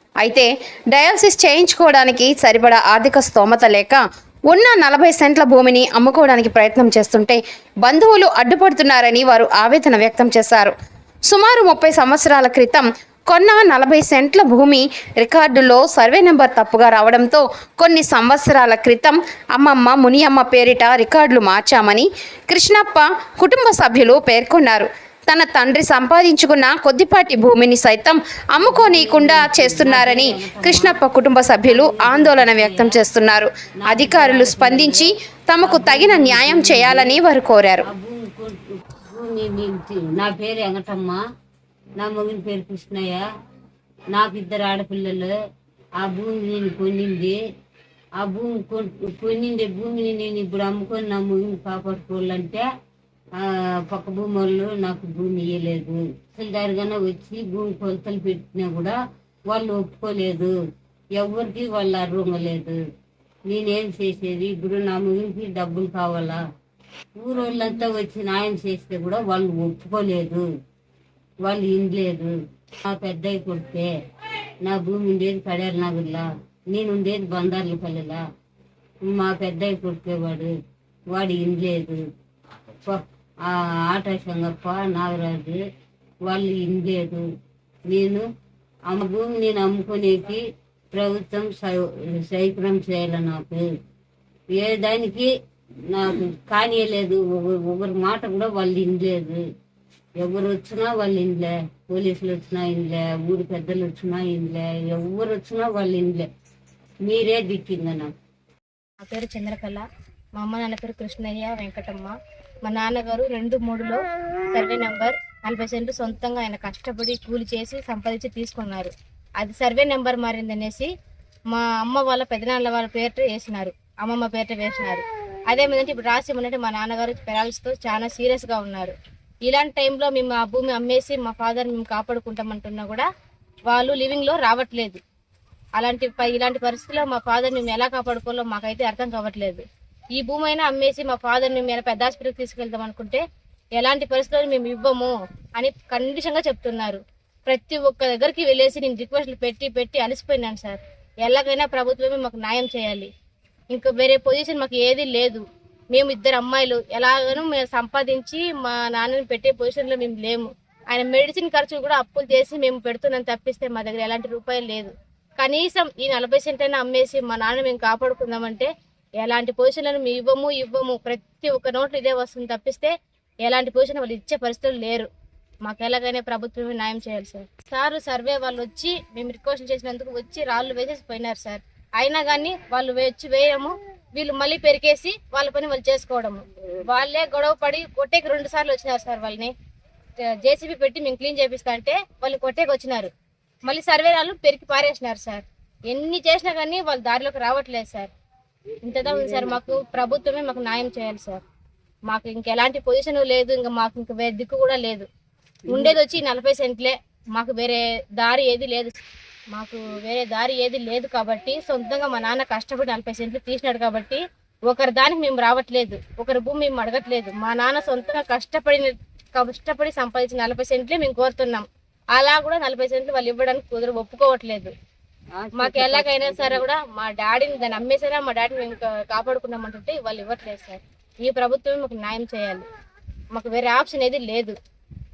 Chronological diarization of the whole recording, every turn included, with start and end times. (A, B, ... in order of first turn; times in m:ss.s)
0:00.2-0:10.7 A
0:11.3-0:37.9 A
0:28.6-0:31.0 B
0:31.6-0:33.0 B
0:33.9-0:37.2 B
0:37.8-0:41.2 B
0:42.0-0:43.2 B
0:44.1-0:45.3 B
0:46.0-0:47.4 B
0:48.2-0:52.7 B
0:53.4-0:59.0 B
0:59.5-1:00.6 B
1:01.2-1:02.8 B
1:03.5-1:06.4 B
1:07.2-1:10.5 B
1:11.4-1:13.9 B
1:14.6-1:18.2 B
1:19.0-1:20.5 B
1:21.1-1:22.0 B
1:22.8-1:25.6 B
1:26.2-1:27.2 B
1:27.9-1:28.3 B
1:28.9-1:33.7 B
1:34.6-1:35.3 B
1:35.9-1:39.4 B
1:40.2-1:46.3 B
1:47.0-1:48.1 B
1:49.0-1:49.8 C
1:50.4-2:00.9 C
2:01.5-2:08.9 C
2:09.5-2:13.1 C
2:13.7-2:15.0 C
2:15.8-2:19.6 C
2:20.2-2:23.2 C
2:23.8-2:33.1 C
2:33.7-2:48.7 C
2:49.2-2:52.9 C
2:53.4-2:55.1 C
2:55.6-3:09.5 C
3:10.4-3:13.1 C
3:13.6-3:18.1 C
3:18.8-3:21.4 C
3:19.0-3:19.6 B
3:22.1-3:25.1 C
3:25.7-3:26.0 B
3:25.7-3:29.0 C
3:29.5-3:44.7 C
3:45.4-3:46.7 B
3:45.6-3:52.7 C
3:53.3-3:54.5 C